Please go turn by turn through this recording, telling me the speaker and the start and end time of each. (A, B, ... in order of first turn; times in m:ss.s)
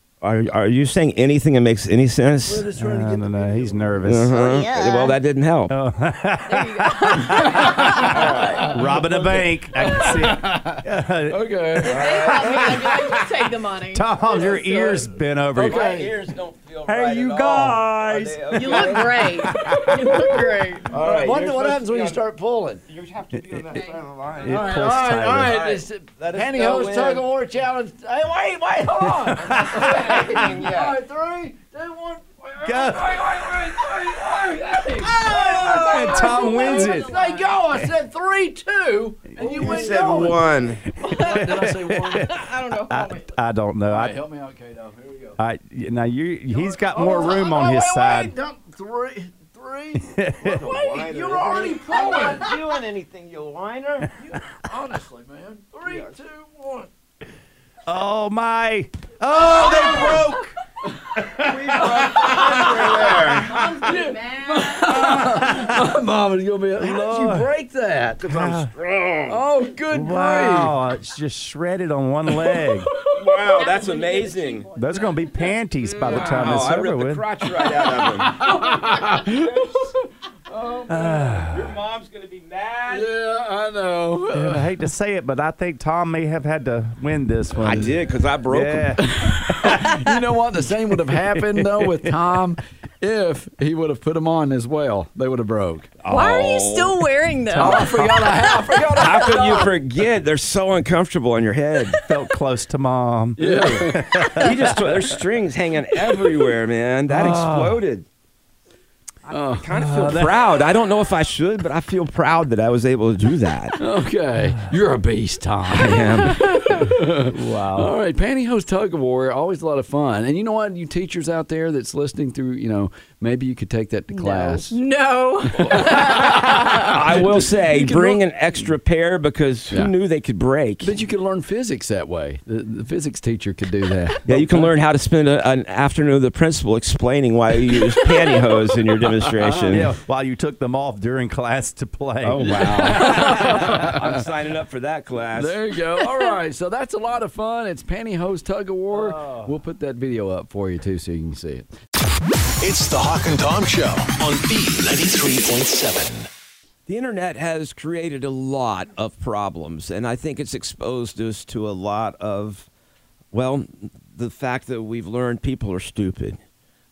0:00.2-0:02.6 A
0:02.5-0:04.1 B
0:02.7-0:04.5 C
0:04.0-0:05.7 A
0:05.7-0:08.1 C
0:06.5-0:08.7 D
0:07.3-0:13.2 B
0:08.1-0:08.6 A
0:08.7-0:11.4 C
0:11.8-0:13.1 A
0:11.9-0:15.0 D
0:13.9-0:16.0 C
0:15.5-0:16.2 B
0:15.6-0:19.5 A
0:16.8-0:20.3 C
0:18.5-0:20.9 D
0:19.7-0:20.3 B
0:20.9-0:22.8 B
0:20.9-0:22.2 A
0:22.9-0:27.3 A
0:24.4-0:25.6 C
0:24.4-0:28.1 B
0:28.1-0:31.0 A
0:28.8-0:42.3 B
0:29.1-0:30.2 C
0:32.6-0:33.3 C
0:32.9-0:34.2 A
0:35.2-0:36.3 A
0:35.3-0:37.5 D
0:35.7-0:37.1 C
0:39.4-0:40.2 C
0:39.4-0:40.9 A
0:41.1-0:44.2 C
0:42.3-0:43.2 D
0:43.9-0:45.4 B
0:45.4-0:48.3 C
0:46.5-0:52.5 B
0:50.0-0:50.6 C
0:50.4-0:54.1 A
0:54.2-0:56.9 B
0:55.8-0:56.1 A
0:57.8-1:00.5 C
0:59.5-1:00.4 A
0:59.6-1:00.2 B
1:00.8-1:03.1 B
1:01.2-1:03.1 C
1:01.4-1:03.6 A
1:03.5-1:04.9 D
1:03.8-1:08.2 B
1:05.1-1:05.8 C
1:06.8-1:07.5 C
1:08.2-1:09.4 A
1:08.2-1:08.7 C
1:09.3-1:10.8 B
1:09.9-1:12.9 C
1:12.4-1:13.5 B
1:13.1-1:14.7 A
1:13.8-1:14.6 D
1:14.7-1:17.2 C
1:15.9-1:16.7 B
1:16.0-1:18.5 A
1:17.6-1:21.0 B
1:20.6-1:23.1 A
1:20.9-1:21.8 C
1:22.9-1:24.6 B
1:24.3-1:30.1 C
1:27.6-1:29.0 A
1:29.0-1:35.9 B
1:30.8-1:32.4 C
1:36.0-1:37.0 A
1:36.1-1:39.3 D
1:37.5-1:39.7 B
1:38.9-1:42.0 A
1:42.0-1:44.7 C
1:43.4-1:44.0 B
1:44.4-1:48.0 A
1:47.1-1:47.8 C
1:49.3-1:49.7 B
1:49.6-1:53.8 A
1:49.7-1:50.4 C
1:53.8-2:04.8 B
1:55.7-1:56.5 A
1:57.2-1:57.9 C
2:04.1-2:07.0 D
2:05.5-2:06.4 B
2:05.9-2:10.9 A
2:10.8-2:14.2 B
2:14.2-2:14.7 C
2:14.2-2:19.9 A
2:19.4-2:23.7 C
2:19.4-2:19.8 B
2:22.2-2:25.6 A
2:22.4-2:24.0 B
2:25.4-2:31.7 B
2:28.9-2:29.6 C
2:32.6-2:36.3 E
2:36.9-2:42.7 A
2:43.3-2:46.4 A